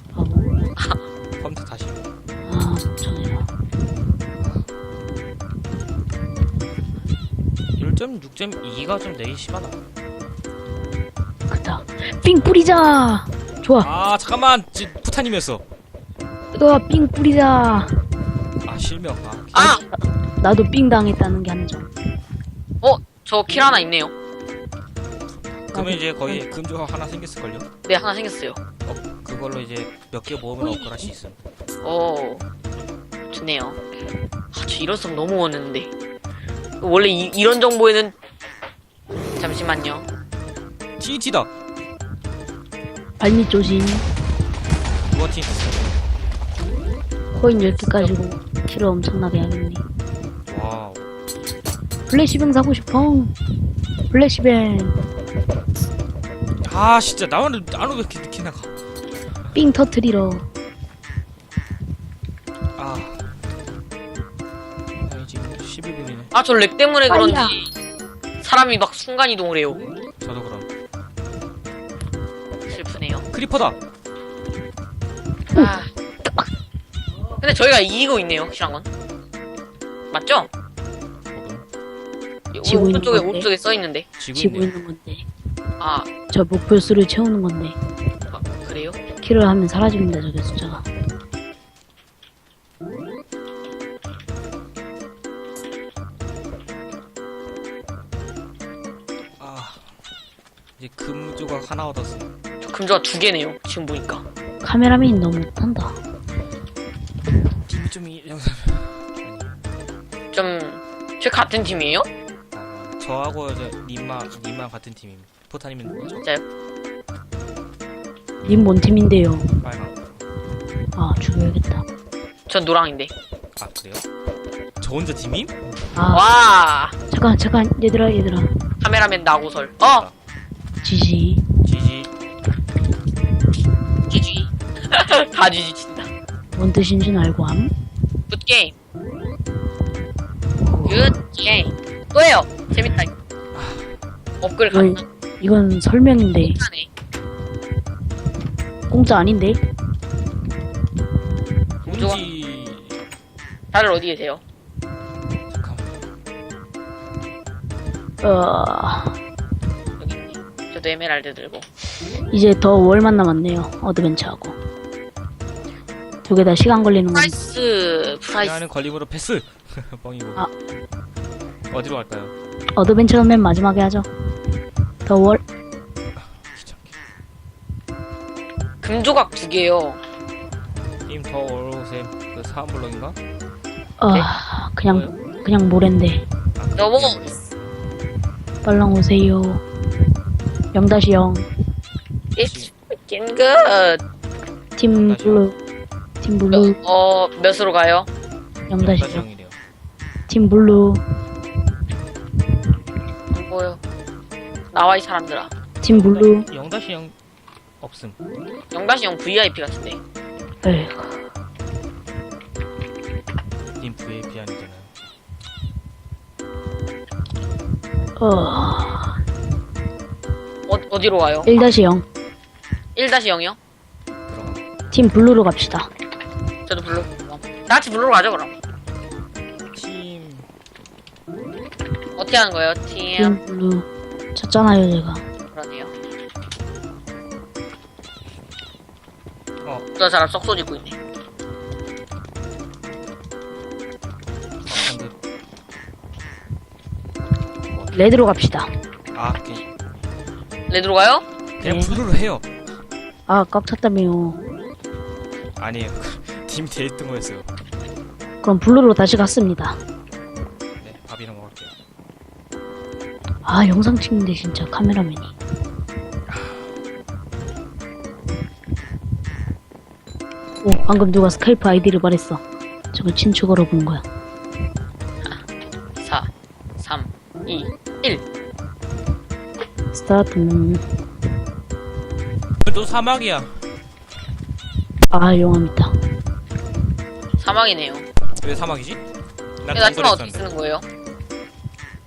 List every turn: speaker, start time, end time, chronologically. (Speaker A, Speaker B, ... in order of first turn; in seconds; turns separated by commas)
Speaker A: 0.1-0.7, Speaker B: 1.4-2.1, Speaker A: 2.4-3.5, Speaker B: 4.4-4.7, Speaker B: 7.8-9.8, Speaker A: 11.5-13.9, Speaker B: 13.8-15.6, Speaker A: 16.5-18.0, Speaker B: 18.6-19.8, Speaker A: 19.5-21.9, Speaker C: 19.5-19.8, Speaker C: 22.8-24.1, Speaker B: 25.3-27.7, Speaker A: 25.7-26.6, Speaker C: 27.9-28.6, Speaker B: 28.8-31.4, Speaker A: 30.6-31.1, Speaker C: 31.8-32.4, Speaker C: 33.3-33.8, Speaker C: 34.5-35.9, Speaker C: 36.8-38.1, Speaker C: 39.4-40.1, Speaker B: 41.0-41.5, Speaker A: 43.2-44.1, Speaker B: 45.1-45.8, Speaker A: 47.3-49.8, Speaker C: 47.5-48.1, Speaker B: 50.5-51.1, Speaker A: 52.1-53.4, Speaker A: 54.1-55.0, Speaker B: 56.6-58.7, Speaker A: 59.5-60.5, Speaker B: 62.8-63.2, Speaker B: 65.0-66.3, Speaker C: 66.3-67.7, Speaker A: 67.1-67.6, Speaker C: 68.4-69.8, Speaker B: 70.2-70.7, Speaker C: 72.7-73.2, Speaker B: 73.3-73.8, Speaker C: 75.5-75.9, Speaker C: 77.4-78.9, Speaker C: 80.1-80.5, Speaker B: 81.3-81.6, Speaker C: 82.5-84.1, Speaker A: 82.6-83.5, Speaker B: 84.2-84.7, Speaker A: 84.3-85.2, Speaker C: 85.8-86.1, Speaker A: 86.3-87.8, Speaker C: 88.3-89.0, Speaker A: 89.2-90.8, Speaker B: 99.4-99.8, Speaker B: 100.8-102.3, Speaker C: 102.6-104.2, Speaker A: 104.6-106.0, Speaker B: 107.7-109.6, Speaker C: 110.3-112.1, Speaker B: 112.5-116.2, Speaker A: 118.4-119.5, Speaker B: 119.6-120.2, Speaker A: 121.0-121.8, Speaker C: 122.5-123.1, Speaker B: 123.6-124.0, Speaker B: 124.8-125.6, Speaker A: 125.9-126.2, Speaker C: 126.1-126.9, Speaker A: 127.1-128.6, Speaker C: 128.8-130.1, Speaker B: 129.8-130.1, Speaker A: 130.8-131.4, Speaker B: 131.6-132.1, Speaker C: 134.1-136.1, Speaker A: 136.5-137.7, Speaker C: 138.3-138.7, Speaker A: 140.7-141.1, Speaker C: 140.8-143.1, Speaker B: 143.5-143.9, Speaker C: 144.4-145.0, Speaker A: 144.7-146.6, Speaker C: 146.4-146.9, Speaker A: 148.9-149.6, Speaker C: 151.8-152.3, Speaker B: 151.8-153.0, Speaker C: 153.7-154.4, Speaker B: 155.5-156.0, Speaker A: 158.2-159.2, Speaker C: 160.0-161.7, Speaker A: 162.3-164.6, Speaker A: 166.2-167.3, Speaker C: 167.1-168.6, Speaker B: 168.3-170.4, Speaker B: 171.7-172.3, Speaker A: 172.8-174.1, Speaker A: 175.0-175.4, Speaker B: 176.4-176.9, Speaker C: 178.8-180.0, Speaker B: 181.1-183.2, Speaker A: 184.0-186.2, Speaker B: 184.8-185.1, Speaker B: 186.6-187.5, Speaker C: 186.8-187.2, Speaker A: 188.6-189.6, Speaker A: 190.7-191.5, Speaker C: 192.3-194.0, Speaker B: 192.4-192.7, Speaker A: 194.8-195.5, Speaker B: 194.8-195.5, Speaker A: 196.2-196.8, Speaker C: 196.5-198.1, Speaker A: 198.7-199.2, Speaker B: 198.7-199.6, Speaker A: 200.3-201.0, Speaker C: 203.3-203.8, Speaker C: 204.7-205.5, Speaker A: 205.8-206.5, Speaker B: 205.8-207.1, Speaker B: 207.8-208.2, Speaker C: 208.7-210.0, Speaker A: 210.6-211.2, Speaker B: 213.8-214.9, Speaker A: 218.2-219.2, Speaker C: 220.7-221.5, Speaker A: 221.4-222.1, Speaker C: 222.9-223.6, Speaker B: 224.3-224.6, Speaker A: 224.9-225.9, Speaker C: 226.7-228.5, Speaker B: 229.7-230.5, Speaker C: 232.2-233.4, Speaker A: 233.2-235.2, Speaker C: 235.5-235.9, Speaker C: 239.9-241.0, Speaker B: 244.7-245.1, Speaker B: 247.7-248.1, Speaker A: 247.9-248.7, Speaker B: 249.1-249.6, Speaker C: 250.7-251.2, Speaker B: 251.6-252.5, Speaker A: 251.6-252.0, Speaker A: 253.3-254.4, Speaker B: 255.6-257.5, Speaker A: 258.4-259.8, Speaker B: 260.8-261.7, Speaker A: 263.4-265.3, Speaker B: 266.3-266.6, Speaker A: 270.6-272.4, Speaker A: 272.9-274.0, Speaker C: 276.0-276.3, Speaker C: 276.8-278.2, Speaker A: 279.9-280.8, Speaker B: 282.6-283.5, Speaker A: 285.1-285.9, Speaker C: 287.4-288.1, Speaker B: 288.4-289.0, Speaker B: 289.6-290.4, Speaker C: 289.7-290.8